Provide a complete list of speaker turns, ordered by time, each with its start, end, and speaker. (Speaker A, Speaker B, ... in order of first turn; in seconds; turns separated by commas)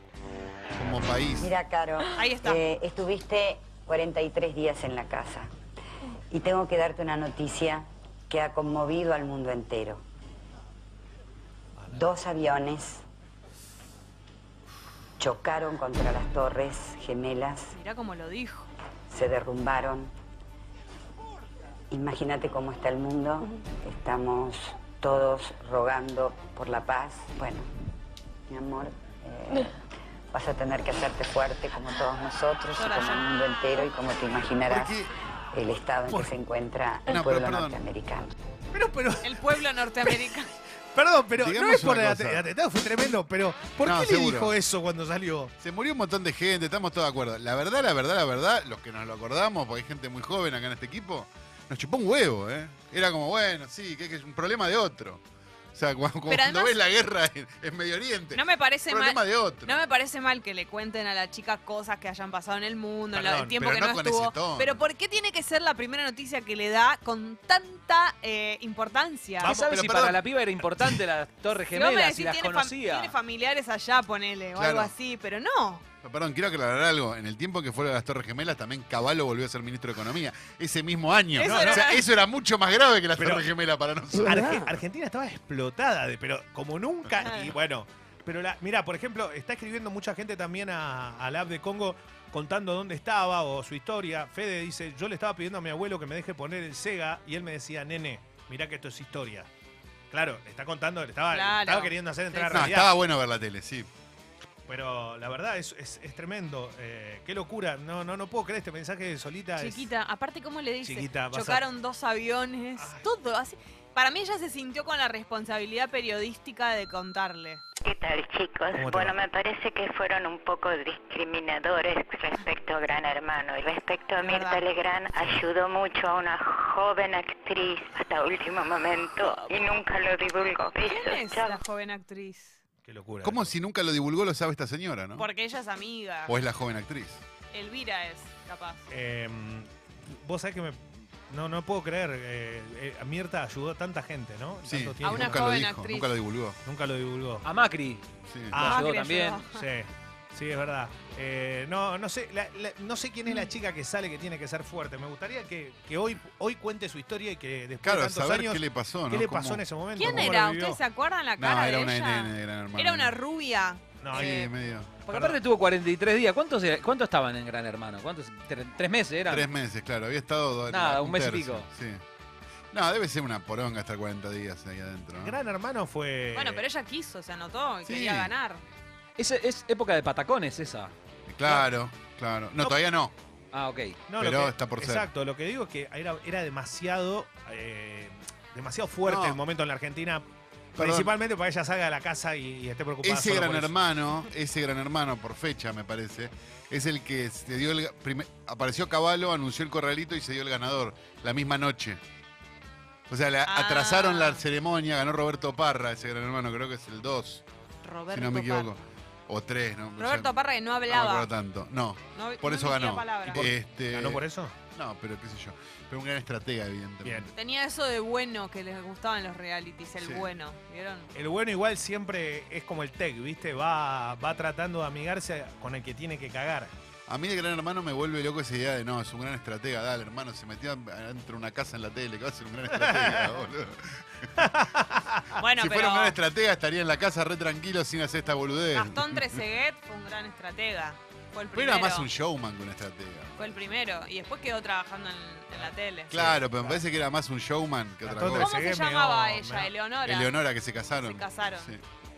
Speaker A: 0.8-1.5, Speaker B: 1.4-5.5, Speaker C: 2.2-2.6, Speaker B: 6.3-10.0, Speaker B: 11.9-13.0, Speaker B: 15.2-17.8, Speaker C: 17.7-18.7, Speaker B: 19.1-20.1, Speaker B: 21.9-27.7, Speaker B: 28.5-29.8, Speaker B: 30.3-35.0, Speaker C: 32.7-33.3, Speaker A: 34.7-35.1, Speaker B: 35.5-38.3, Speaker A: 37.1-37.8, Speaker D: 38.7-40.3, Speaker C: 39.2-40.6, Speaker D: 40.9-45.5, Speaker A: 41.3-42.4, Speaker A: 43.8-44.5, Speaker A: 45.6-59.8, Speaker C: 56.3-56.8, Speaker C: 58.3-69.6, Speaker D: 63.1-63.6, Speaker A: 63.5-64.8, Speaker E: 69.4-73.2, Speaker A: 69.4-70.2, Speaker C: 71.7-75.8, Speaker A: 74.5-75.0, Speaker A: 76.0-84.4, Speaker C: 81.3-82.1, Speaker D: 81.4-81.9, Speaker D: 83.2-83.5, Speaker D: 84.2-99.5, Speaker C: 87.2-87.5, Speaker D: 100.1-102.9, Speaker C: 101.3-102.8, Speaker A: 102.5-103.9, Speaker D: 104.7-109.9, Speaker C: 109.6-117.6, Speaker D: 110.8-111.7, Speaker D: 112.8-113.1, Speaker F: 117.8-131.6, Speaker D: 118.8-119.2, Speaker C: 124.2-124.7, Speaker C: 130.8-132.6, Speaker D: 132.8-133.5, Speaker A: 133.2-135.3, Speaker C: 135.2-136.4, Speaker A: 136.3-137.2, Speaker C: 137.5-138.9, Speaker D: 138.9-145.5, Speaker A: 144.6-146.6, Speaker C: 145.0-146.2, Speaker D: 146.6-147.5, Speaker E: 147.4-149.4, Speaker A: 148.3-148.7, Speaker D: 148.5-148.9, Speaker C: 148.6-149.6, Speaker D: 149.5-160.8, Speaker A: 157.8-160.3, Speaker C: 159.9-164.5, Speaker A: 161.4-163.2, Speaker D: 164.0-164.4, Speaker A: 164.1-165.0, Speaker E: 165.1-169.5, Speaker D: 165.1-165.4, Speaker A: 169.3-172.0, Speaker E: 170.7-171.7, Speaker A: 172.7-175.4, Speaker D: 175.2-176.7, Speaker C: 176.3-178.6, Speaker A: 177.8-178.3, Speaker E: 179.2-180.9, Speaker A: 181.3-183.2, Speaker D: 181.4-181.7, Speaker E: 183.5-184.1, Speaker D: 184.1-190.2, Speaker A: 184.2-185.1, Speaker A: 189.1-189.4, Speaker D: 190.8-193.8, Speaker A: 190.8-191.1, Speaker A: 193.0-202.0, Speaker A: 203.1-207.4, Speaker C: 203.4-204.5, Speaker C: 207.8-208.8, Speaker A: 208.1-214.2, Speaker C: 210.0-211.3, Speaker C: 212.1-213.5, Speaker D: 213.3-214.6, Speaker A: 214.7-217.3, Speaker D: 217.0-217.3, Speaker C: 217.3-221.1, Speaker A: 220.0-220.3, Speaker D: 221.1-226.7, Speaker A: 227.1-234.5, Speaker D: 232.8-233.3, Speaker D: 234.4-235.3, Speaker C: 235.4-236.2, Speaker A: 235.4-239.4, Speaker C: 238.7-242.1, Speaker A: 241.5-243.5, Speaker C: 243.4-246.3, Speaker D: 245.5-246.8, Speaker A: 246.1-248.6, Speaker D: 248.0-249.7, Speaker C: 248.3-250.4, Speaker A: 250.0-251.8, Speaker C: 250.9-251.8